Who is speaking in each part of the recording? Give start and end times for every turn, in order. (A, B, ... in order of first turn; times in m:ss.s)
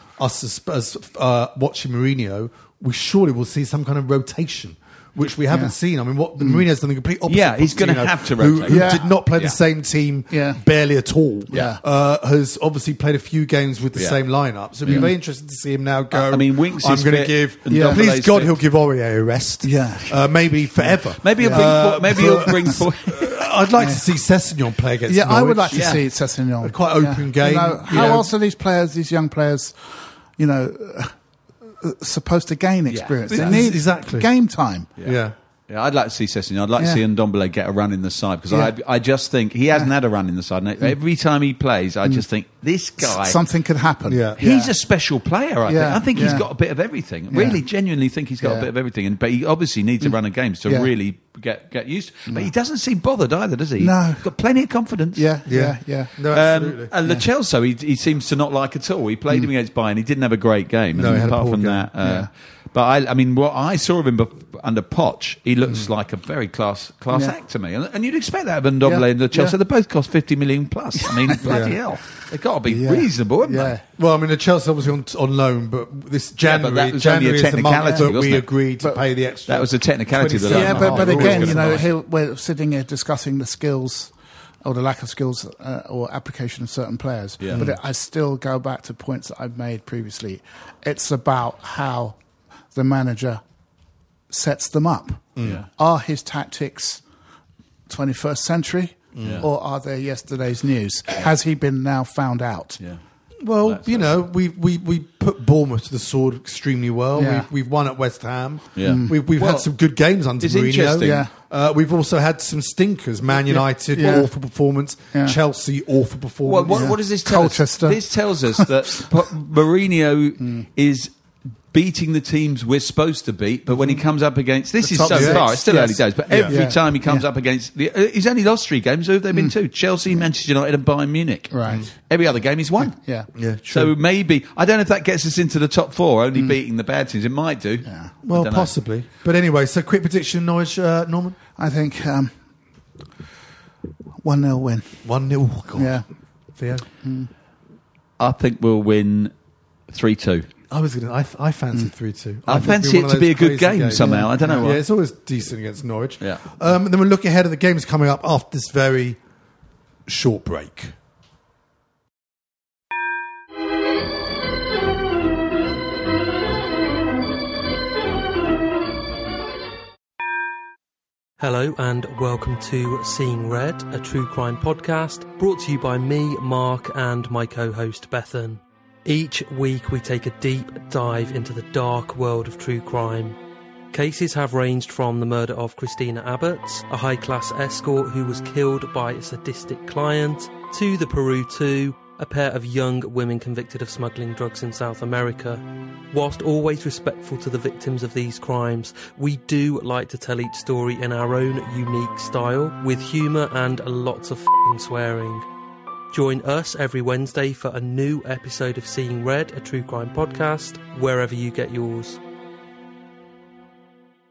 0:00.2-0:26.0 A
0:07.3-0:09.6 B
0:08.7-0:09.1 C
0:10.3-0:10.6 C
0:11.5-0:11.8 C
0:14.9-0:15.1 C
0:16.1-0:18.6 B
0:17.7-0:18.0 C
0:19.6-0:20.2 C
0:21.2-0:23.4 B
0:21.4-0:22.8 C
0:23.8-0:24.0 C
0:25.1-0:29.7 C
0:25.7-0:26.0 B
0:26.6-0:28.3 A
0:30.4-0:31.1 C
0:31.8-0:34.9 C
0:32.9-0:33.7 B
0:33.3-0:34.3 A
0:35.0-0:43.4 B
0:35.0-0:35.3 A
0:36.8-0:37.0 C
0:43.0-0:44.7 C
0:44.1-0:44.4 A
0:44.4-0:55.3 B
0:45.7-0:46.5 C
0:47.3-0:47.6 C
0:48.4-0:48.7 C
0:53.8-0:54.3 C
0:55.1-0:56.1 C
0:55.5-0:56.9 A
0:56.3-1:13.7 B
1:00.9-1:01.9 A
1:01.0-1:01.4 C
1:02.0-1:02.3 C
1:08.8-1:09.5 C
1:11.0-1:11.8 C
1:11.4-1:11.7 A
1:12.7-1:13.8 C
1:14.0-1:21.9 A
1:16.4-1:18.5 B
1:17.8-1:18.1 C
1:19.5-1:21.9 B
1:20.4-1:24.1 C
1:24.6-1:32.2 C
1:27.5-1:27.8 A
1:32.7-1:33.4 C
1:34.3-1:37.0 C
1:35.4-1:35.6 A
1:35.4-1:35.7 B
1:37.9-1:42.8 C
1:39.1-1:39.4 A
1:39.2-1:39.5 B
1:43.4-1:56.9 A
1:43.6-1:44.2 B
1:47.2-1:47.5 C
1:48.8-1:49.7 B
1:48.8-1:49.1 C
1:50.4-1:51.2 B
1:51.0-1:51.3 C
1:53.5-1:54.3 C
1:55.1-1:55.4 C
1:56.4-2:01.1 B
1:56.7-1:59.0 C
2:00.4-2:00.6 C
2:01.7-2:13.0 B
2:04.8-2:07.3 C
2:05.1-2:05.4 A
2:06.3-2:06.6 A
2:11.5-2:11.9 C
2:12.9-2:13.3 C
2:13.3-2:13.9 A
2:13.7-2:18.7 B
2:17.8-2:18.1 C
2:18.2-2:21.4 A
2:21.6-2:22.4 C
2:24.2-2:25.0 C
2:25.0-2:26.0 A
2:25.7-2:26.0 C
2:26.6-2:26.8 A
2:27.0-2:27.3 C
2:28.2-2:29.3 B
2:29.9-2:30.5 B
2:30.7-2:39.2 A
2:32.5-2:34.8 B
2:34.0-2:34.8 C
2:40.1-2:40.9 A
2:51.4-3:03.4 D
3:03.9-3:25.4 D
3:26.1-3:32.2 D